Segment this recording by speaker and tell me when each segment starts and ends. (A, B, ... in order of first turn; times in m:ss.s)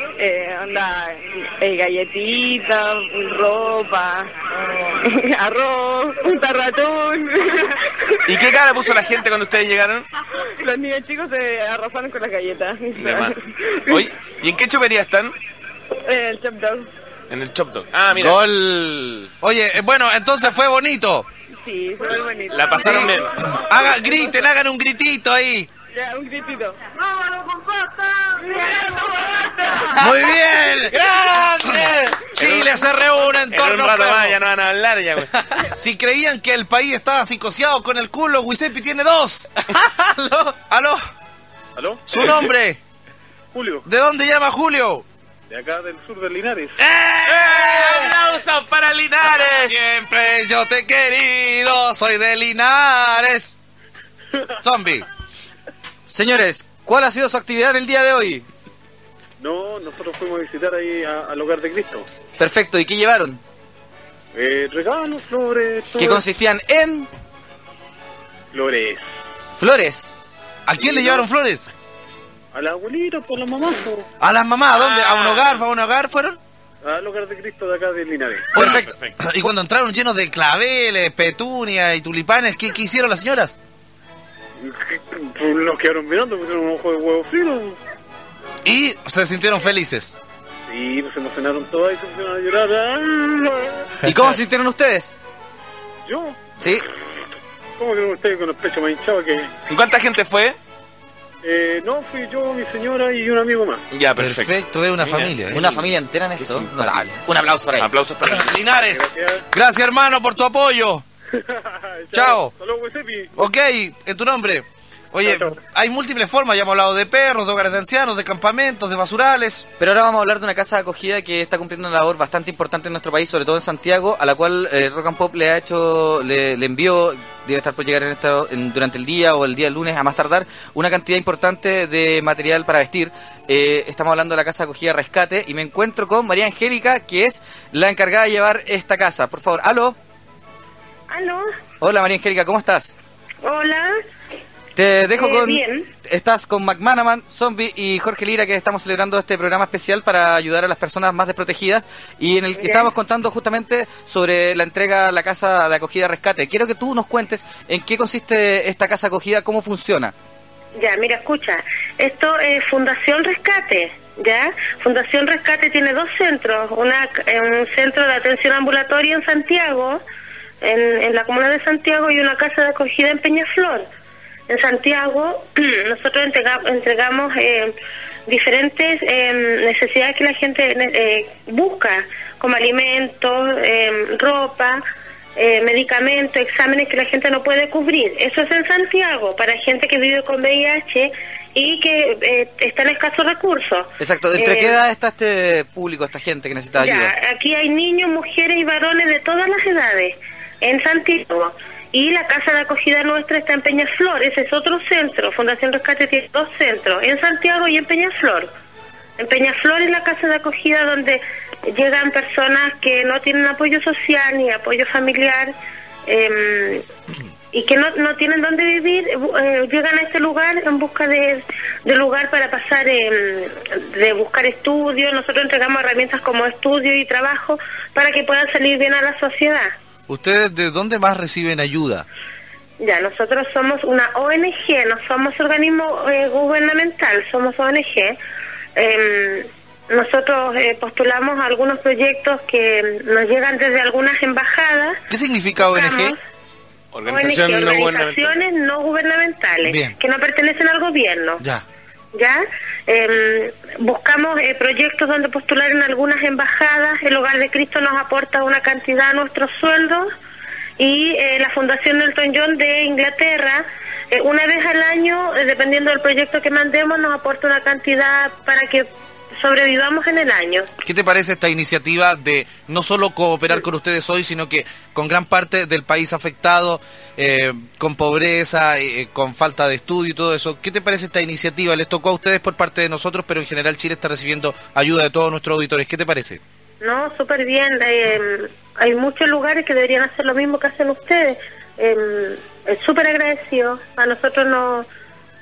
0:00.2-0:04.3 A
0:04.8-0:07.9 A
0:08.3-0:10.0 B
0:10.6-0:14.1 A
0:12.9-0:13.3 B
0:13.9-0:15.3 B
0:16.0-0:16.9 A
0:17.3-0:18.4 B
0:18.1-0:19.3 C
0:19.4-0:21.2 D
0:21.6-0:23.2 A
0:22.5-0:23.3 B
0:22.8-0:25.7 D
0:25.9-0:26.8 A
0:30.0-0:34.4 D
0:32.4-0:35.3 B
0:35.8-0:39.5 D
0:39.7-0:40.5 C
0:40.7-0:41.0 D
0:41.8-0:42.2 E
0:42.1-0:42.8 D
0:43.5-0:43.8 E
0:43.8-0:45.0 D
0:45.5-0:46.8 E
0:46.8-0:48.1 D
0:47.2-0:49.7 B
0:49.6-0:53.6 D
0:54.6-0:55.0 D
0:56.1-0:58.4 C
0:59.4-1:02.0 E
1:02.4-1:03.4 C
1:04.3-1:06.2 E
1:06.0-1:07.1 C
1:08.5-1:09.0 E
1:09.6-1:10.1 C
1:10.7-1:11.7 D
1:10.8-1:11.2 E
1:12.5-1:14.1 E
1:14.2-1:16.4 D
1:14.7-1:15.6 B
1:16.8-1:18.6 E
1:18.5-1:23.6 D
1:18.6-1:18.8 C
1:18.6-1:19.2 B
1:24.6-1:27.8 E
1:28.6-1:30.2 D
1:30.7-1:33.8 E
1:34.0-1:35.1 C
1:36.0-1:36.4 E
1:37.8-1:39.6 E
1:39.7-1:40.6 B
1:41.4-1:43.8 E
1:43.9-1:47.1 B
1:44.2-1:45.6 D
1:45.5-1:47.9 C
1:47.8-1:48.6 B
1:48.2-1:51.0 D
1:48.8-1:49.4 E
1:51.4-1:53.4 E
1:52.1-1:52.5 D
1:53.4-1:59.7 D
1:55.2-1:55.6 E
1:59.8-2:20.0 C
2:21.1-2:21.5 F
2:21.8-2:22.9 C
2:23.4-2:24.0 F
2:24.8-2:40.1 C
2:25.1-2:25.9 F
2:32.6-2:32.9 F
2:40.8-2:50.0 F
2:50.6-2:53.9 F
2:54.5-2:57.8 F
2:58.3-3:04.8 F
3:05.4-3:14.8 F
3:14.0-3:17.1 C
3:16.8-3:28.5 F
3:29.2-3:35.5 F
3:36.0-3:36.8 F
3:37.5-3:49.7 F
3:50.1-3:52.0 D
3:52.8-3:58.2 F
3:58.8-4:05.0 F
4:05.1-4:06.1 D
4:05.6-4:06.2 F
4:06.9-4:08.4 B
4:07.0-4:11.4 F
4:09.6-4:10.0 D
4:12.1-4:20.1 F
4:20.8-4:30.7 F
4:30.8-4:46.4 D
4:46.8-4:54.9 F